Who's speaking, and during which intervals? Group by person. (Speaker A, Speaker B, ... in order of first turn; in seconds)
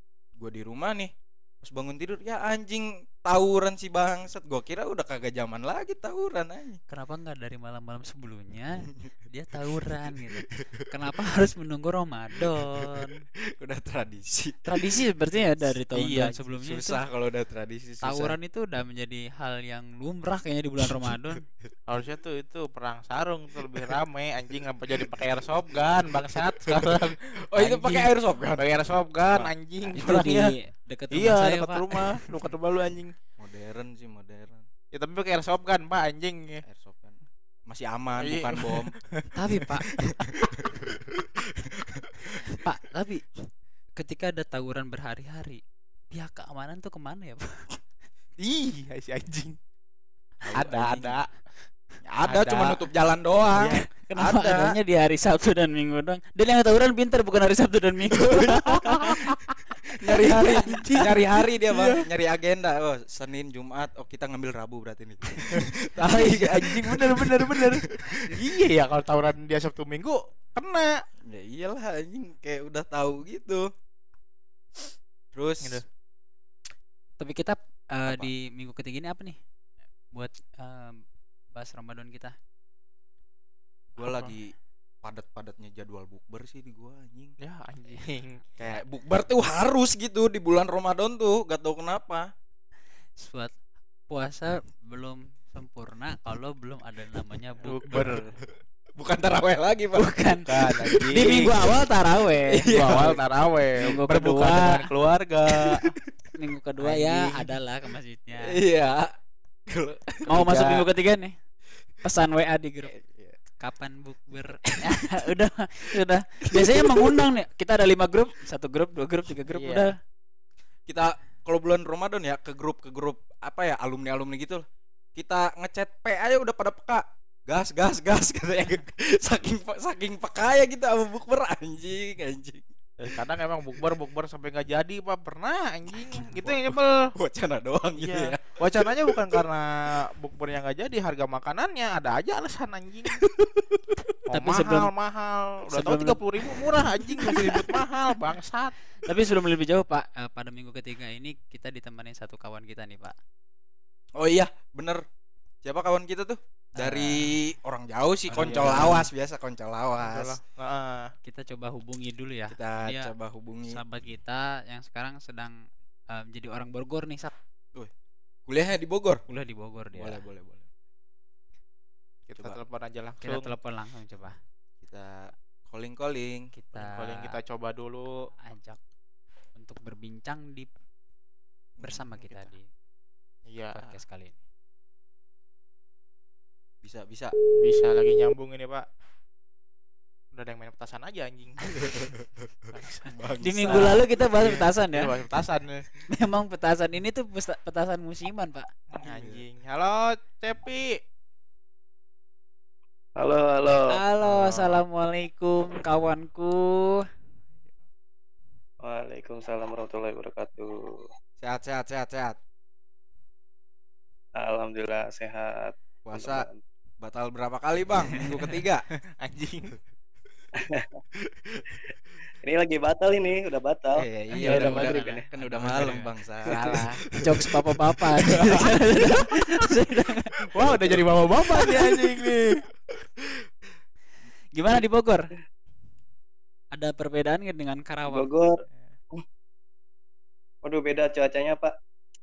Speaker A: 0.4-6.8, 10.3-10.9, 12.4-15.0, 16.6-18.4, 20.8-21.6, 26.6-28.7, 33.4-34.7, 36.6-38.9, 40.0-42.6, 50.4-51.2, 52.1-54.8, 58.1-59.1, 59.9-68.3, 71.2-73.7, 75.3-75.8, 83.9-87.4, 88.6-92.3, 97.9-98.2, 99.0-101.7, 102.5-103.2, 105.6-106.0, 106.8-107.5, 108.4-109.1, 109.7-110.6, 112.8-113.4, 116.5-117.3, 120.9-132.7, 136.1-138.9, 143.2-144.0, 154.2-155.0, 155.6-160.4, 162.5-163.8, 168.5-169.2, 169.9-170.7, 174.8-176.5, 181.8-182.1, 186.8-187.3, 191.8-194.0, 199.0-199.4, 211.4-212.4, 216.1-216.5, 217.0-218.8, 221.2-221.8, 223.9-228.8, 231.6-232.0, 232.9-233.4
Speaker B: 6.9-13.2, 14.7-17.0, 18.0-21.4, 29.9-32.2, 39.4-39.9, 42.5-43.2, 44.0-47.8, 54.1-59.3, 60.2-60.5, 77.2-79.4, 80.1-81.0, 81.5-82.3, 93.2-93.5, 94.1-98.2, 100.0-100.5, 101.0-103.0, 103.8-104.9, 106.4-108.6, 110.3-111.3, 112.0-112.9, 113.6-119.9, 144.3-144.9, 145.7-146.2, 149.0-153.2, 156.8-157.2, 158.3-159.1, 161.2-163.1, 163.7-165.6, 166.1-167.3, 169.3-170.2, 173.2-174.4, 176.5-177.4, 178.4-178.8, 179.6-180.7, 181.8-182.7, 183.7-184.4, 193.4-195.1, 196.1-198.7, 203.7-207.0, 224.3-226.1, 227.2-230.5, 234.6-235.2, 236.7-238.3
Speaker C: 15.9-16.4, 21.9-30.6, 31.1-33.1, 34.9-36.6, 38.2-40.5, 48.4-49.6, 50.5-51.3, 52.2-52.9, 53.6-53.8, 59.0-59.5, 60.1-61.2, 61.7-62.0, 65.5-70.9, 84.0-84.3, 87.4-88.5, 97.7-98.2, 100.5-101.7, 102.7-105.9, 110.4-110.9, 119.5-119.9, 133.0-137.1, 138.0-143.3, 144.3-148.8, 158.3-159.1, 160.0-161.1, 172.3-173.5, 176.8-178.3, 183.5-183.9, 187.6-188.9, 190.3-192.0, 192.7-195.9, 198.9-201.0, 204.2-204.8, 219.2-219.8, 225.7-227.0, 230.5-232.6
Speaker D: 187.6-187.9, 203.2-204.0, 208.8-211.1, 214.4-216.6, 220.6-221.0, 222.4-225.2, 238.1-238.6, 240.6-241.7